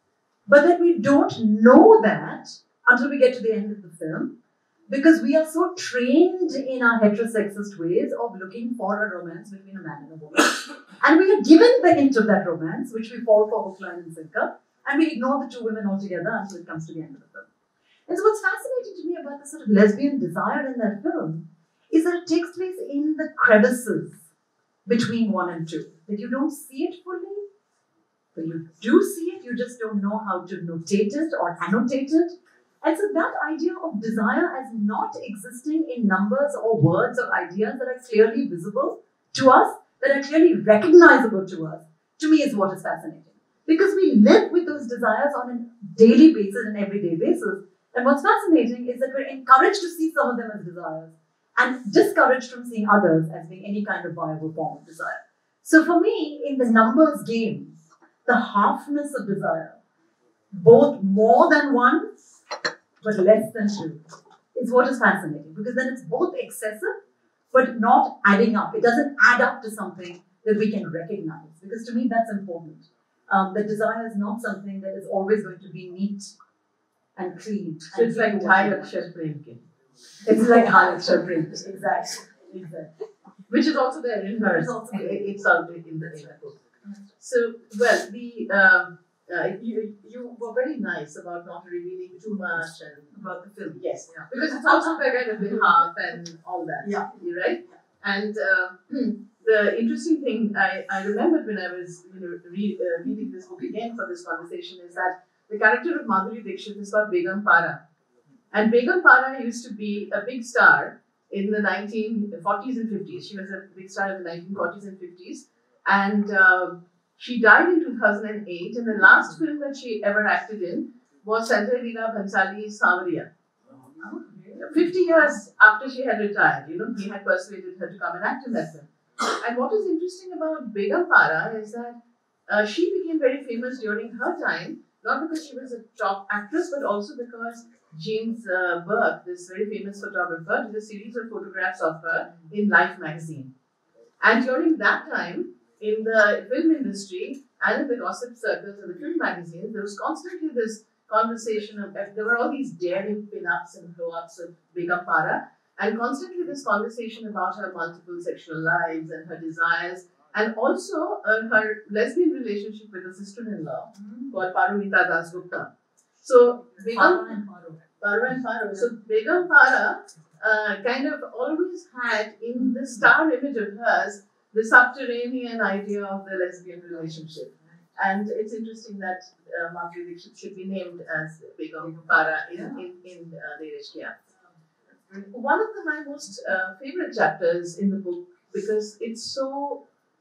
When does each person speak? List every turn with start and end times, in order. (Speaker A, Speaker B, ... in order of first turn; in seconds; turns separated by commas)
Speaker A: 0.5-4.3, Speaker A: 4.9-17.5, Speaker A: 18.1-24.2, Speaker A: 24.9-27.4, Speaker A: 28.3-57.7, Speaker A: 58.2-59.8, Speaker A: 60.5-62.1, Speaker A: 63.0-64.0, Speaker A: 64.5-67.0, Speaker A: 67.5-76.3, Speaker A: 77.2-79.1, Speaker B: 77.9-79.6, Speaker A: 80.2-82.8, Speaker B: 83.5-86.5, Speaker A: 84.4-85.2, Speaker B: 87.2-93.2, Speaker A: 93.1-94.3, Speaker B: 93.7-107.8, Speaker A: 96.8-97.1, Speaker B: 108.5-123.3, Speaker A: 124.0-124.7, Speaker B: 124.6-143.5, Speaker B: 144.2-165.7, Speaker A: 163.9-164.3, Speaker B: 166.2-167.4, Speaker A: 166.9-167.8, Speaker B: 168.0-184.2, Speaker A: 182.5-182.8, Speaker B: 185.2-189.8